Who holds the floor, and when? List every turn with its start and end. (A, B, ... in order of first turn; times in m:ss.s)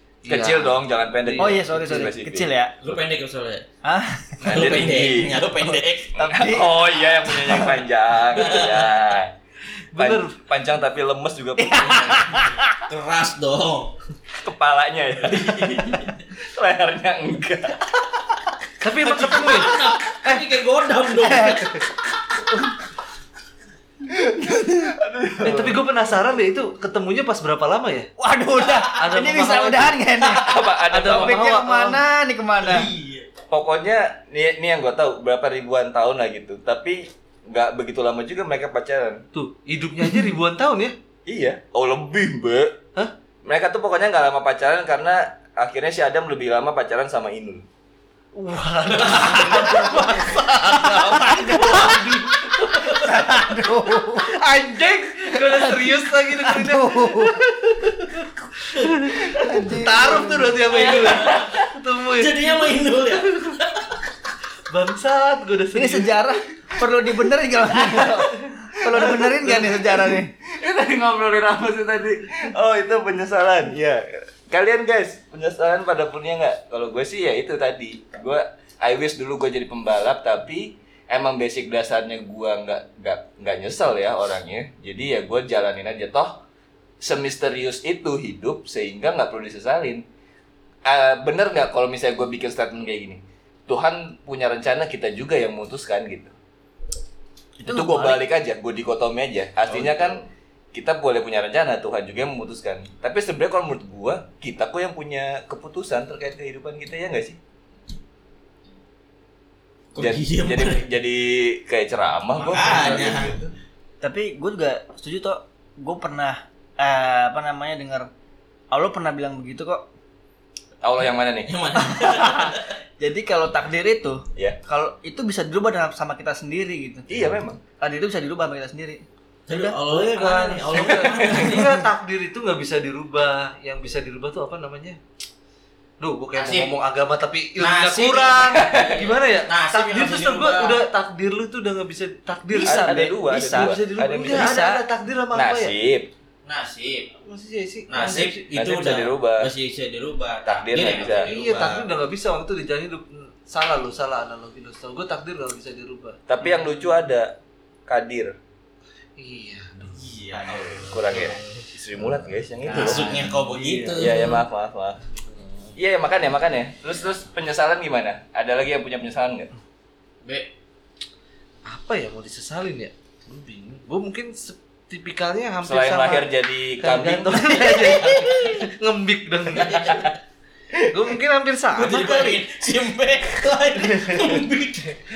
0:00.2-0:01.9 A
0:00.2-0:02.5 B
0:01.4-0:02.7 C
0:02.8-0:03.6 D
0:03.8-0:04.6 C
0:04.4-0:05.4 B
0:04.4-0:06.3 D
0:05.5-0:07.8 C
0:06.2-0:09.3 B
0:08.3-0:08.9 D
0:09.9-0:10.3 A
0:10.0-0:12.2 B
0:11.6-0:12.7 C
0:11.6-0:13.9 D
0:14.4-0:18.2 B
0:15.3-0:15.8 D
0:18.8-0:19.7 A
0:19.0-0:21.7 D
0:21.1-0:21.8 C
0:24.7-0:25.8 B
0:25.4-0:28.1 A
0:28.2-0:32.9 C
0:28.8-0:30.0 A
0:30.2-0:31.4 B
0:30.9-0:32.0 A
0:32.6-0:33.3 D
0:33.5-0:39.2 B
0:39.3-0:40.9 A
0:41.2-0:42.8 B
0:43.4-0:47.6 B
0:48.3-0:53.6 A
0:49.4-0:50.1 C
0:51.0-0:52.2 C
0:52.9-0:54.3 C
0:54.1-1:03.6 A
0:55.4-0:57.3 C
0:59.2-0:59.7 D
0:59.4-1:00.8 C
1:00.6-1:03.6 D
1:01.0-1:01.5 B
1:04.7-1:06.2 A
1:05.7-1:10.3 C
1:08.8-1:26.4 B
1:27.0-1:30.0 B
1:30.8-1:36.3 B
1:37.6-1:38.2 C
1:37.6-1:47.4 B
1:39.7-1:40.0 D
1:49.9-1:50.9 D
1:50.0-1:53.5 B
1:52.4-1:53.4 D
1:54.0-1:58.1 C
1:58.7-1:59.9 C
2:00.8-2:01.5 B
2:01.4-2:02.7 D
2:01.8-2:07.0 C
2:07.1-2:07.6 B
2:07.8-2:09.8 C
2:09.5-2:11.8 D
2:10.0-2:15.0 A
2:16.0-2:25.7 A
2:16.3-2:16.7 D
2:17.6-2:20.8 D
2:18.5-2:18.8 B
2:22.5-2:23.7 C
2:22.6-2:24.6 B
2:24.3-2:24.8 C
2:25.3-2:26.1 B
2:26.4-2:27.1 D
2:27.2-2:28.4 A
2:27.9-2:31.8 D
2:28.5-2:29.5 B
2:30.4-2:31.8 B
2:31.2-2:36.5 A
2:36.3-2:37.4 B
2:37.9-2:38.3 B
2:39.2-2:40.0 A
2:39.9-2:41.6 D
2:40.8-2:43.1 B
2:42.7-2:44.3 A
2:42.7-2:44.4 D
2:43.9-2:45.0 B
2:45.0-2:45.7 A
2:45.8-2:49.5 B
2:50.2-2:50.5 D
2:51.6-2:59.9 A
2:55.6-2:57.7 B
2:57.7-2:58.5 D
2:59.5-3:00.2 D
3:00.9-3:02.4 A
3:01.7-3:05.0 D